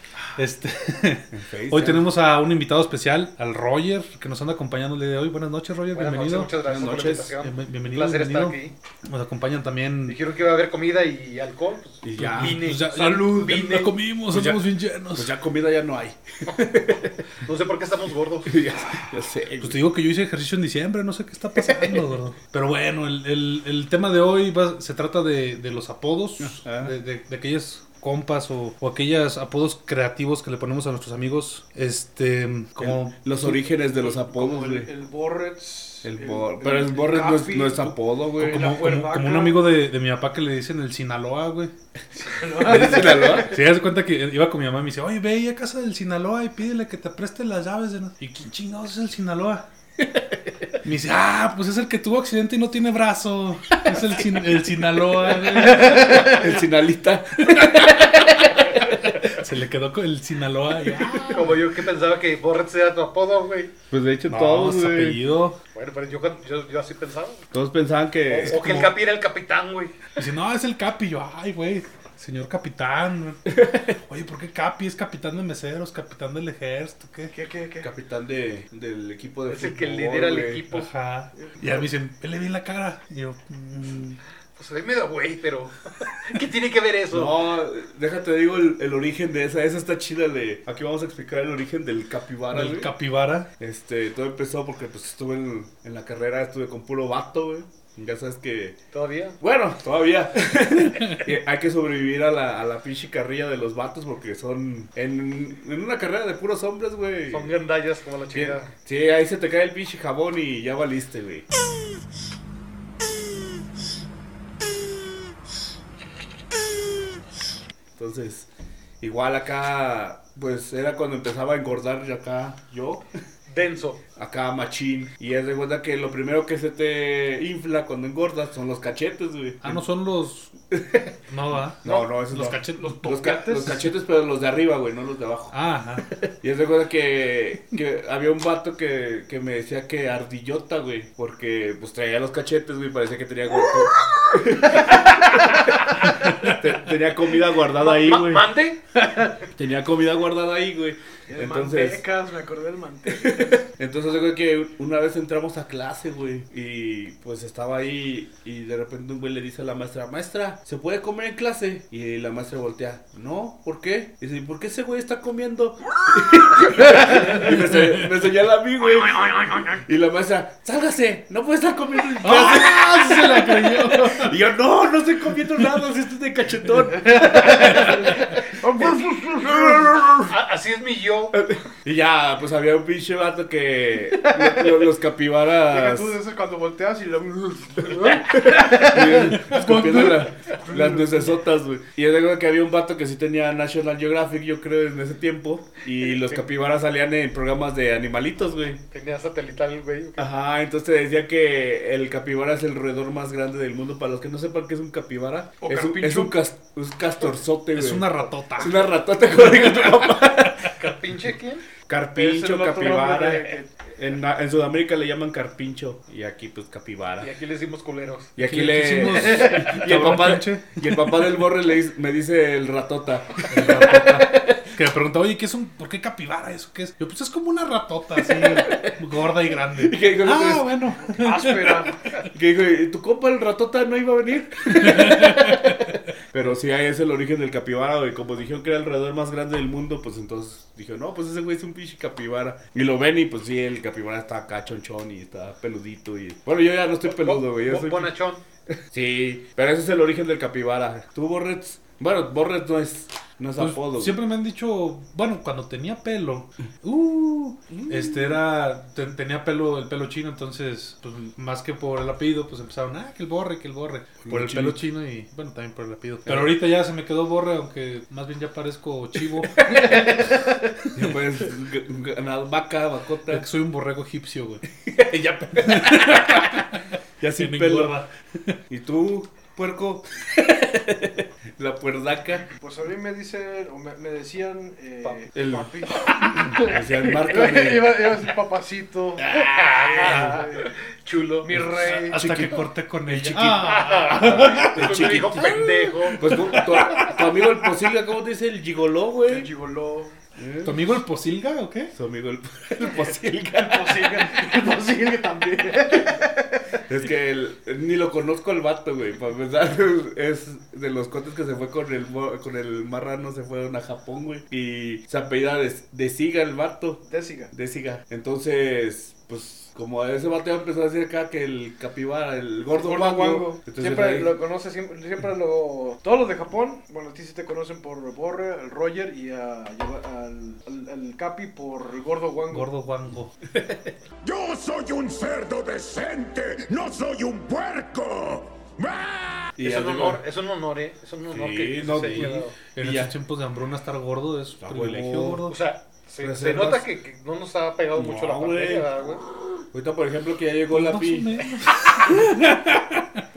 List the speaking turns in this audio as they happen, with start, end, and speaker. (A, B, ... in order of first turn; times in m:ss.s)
0:00.4-0:06.5 A
0:01.3-0:02.2 B
0:05.9-0:08.7 C
0:06.6-0:07.4 B
0:07.4-0:10.2 A
0:10.1-0:13.9 C
0:12.0-0:12.6 B
0:12.2-0:15.3 A
0:14.3-0:17.2 B
0:17.4-0:18.8 C
0:18.4-0:19.8 B
0:19.6-0:33.6 A
0:26.4-0:26.9 B
0:32.8-0:34.9 B
0:33.7-0:37.9 D
0:36.0-0:38.7 B
0:38.4-0:41.7 A
0:38.5-0:39.7 D
0:42.1-0:43.5 D
0:42.6-0:43.6 B
0:42.6-0:49.6 A
0:50.0-0:50.7 B
0:50.8-0:56.5 A
0:55.8-0:59.3 B
0:57.4-0:57.7 A
0:59.2-1:01.6 A
1:00.9-1:01.4 B
1:01.3-1:03.7 C
1:03.9-1:05.2 B
1:04.3-1:05.6 A
1:05.7-1:07.4 C
1:07.5-1:08.8 B
1:08.3-1:10.0 C
1:08.4-1:09.0 A
1:10.2-1:17.3 A
1:13.5-1:14.0 B
1:17.3-1:17.9 D
1:17.8-1:20.6 B
1:19.5-1:20.9 C
1:20.7-1:24.2 A
1:21.4-1:21.8 D
1:24.6-1:27.4 C
1:27.1-1:32.9 B
1:32.5-1:33.5 A
1:33.6-1:38.8 B
1:38.9-1:39.4 C
1:39.4-1:47.6 B
1:47.3-1:48.7 C
1:48.3-1:51.4 B
1:58.0-1:58.5 B
1:59.0-2:03.1 B
2:03.5-2:04.0 C
2:04.2-2:09.8 B
2:09.6-2:10.5 A
2:10.7-2:11.2 B
2:11.3-2:13.2 A
2:11.8-2:15.5 B
2:11.8-2:12.1 C
2:12.8-2:13.8 D
2:15.5-2:16.1 A
2:16.1-2:28.5 B
2:26.1-2:26.6 A
2:27.8-2:28.8 C
2:29.6-2:32.0 B
2:31.3-2:33.6 D
2:33.1-3:00.3 B
2:47.4-2:48.0 A
2:52.2-2:54.3 A
2:56.9-2:59.9 D
3:00.3-3:01.4 C
3:01.3-3:06.2 B
3:04.1-3:04.8 D
3:05.6-3:11.3 D
3:07.9-3:18.8 B
3:09.4-3:10.2 A
3:16.0-3:16.4 C
3:18.9-3:20.2 C
3:20.2-3:28.0 B
3:25.6-3:26.4 D
3:27.7-3:28.9 A
3:28.6-3:30.7 B
3:30.7-3:31.6 C
3:31.9-3:37.3 B
3:32.2-3:33.7 D
3:37.2-3:38.3 C
3:38.4-3:44.7 B
3:38.4-3:40.8 A
3:43.5-3:51.9 A
3:48.2-3:49.0 B
3:49.7-3:50.8 B
3:51.0-3:52.0 D
3:52.2-4:08.1 B
3:54.8-3:55.7 A
4:07.0-4:08.4 C
4:08.7-4:14.2 B
4:13.6-4:30.3 A
4:17.7-4:18.4 B
4:24.2-4:24.8 B
4:26.2-4:26.6 B
4:29.6-4:30.1 B
4:30.8-4:31.2 A
4:30.9-4:33.5 B
4:33.3-4:34.6 A
4:34.7-4:36.7 B
4:35.6-4:36.8 A
4:37.2-4:38.0 B
4:37.4-4:38.6 A
4:38.7-4:42.4 B
4:42.6-4:49.2 D
4:45.3-4:45.7 B
4:46.6-4:48.2 B
4:49.2-4:50.4 B
4:49.3-4:51.5 C
4:49.9-4:50.6 D
4:51.4-4:52.2 D
4:51.5-4:57.1 A
4:51.8-4:55.6 B
4:53.6-4:56.2 C
4:56.1-4:59.5 B
4:59.3-5:00.1 D
5:00.4-5:00.9 B
5:00.6-5:01.9 A
5:01.9-5:04.3 B
5:03.6-5:06.8 D
5:06.9-5:24.4 B
5:17.0-5:17.5 D
5:22.7-5:32.7 D
5:32.5-5:33.3 A
5:33.5-5:33.9 B
5:34.2-5:39.5 E
5:39.6-5:40.2 B
5:39.6-5:42.5 C
5:41.3-5:43.1 B
5:41.9-5:45.6 A
5:44.6-5:45.5 B
5:45.5-5:49.2 C
5:46.2-5:46.9 B
5:47.9-5:48.9 B
5:49.7-5:51.4 B
5:50.7-5:53.0 A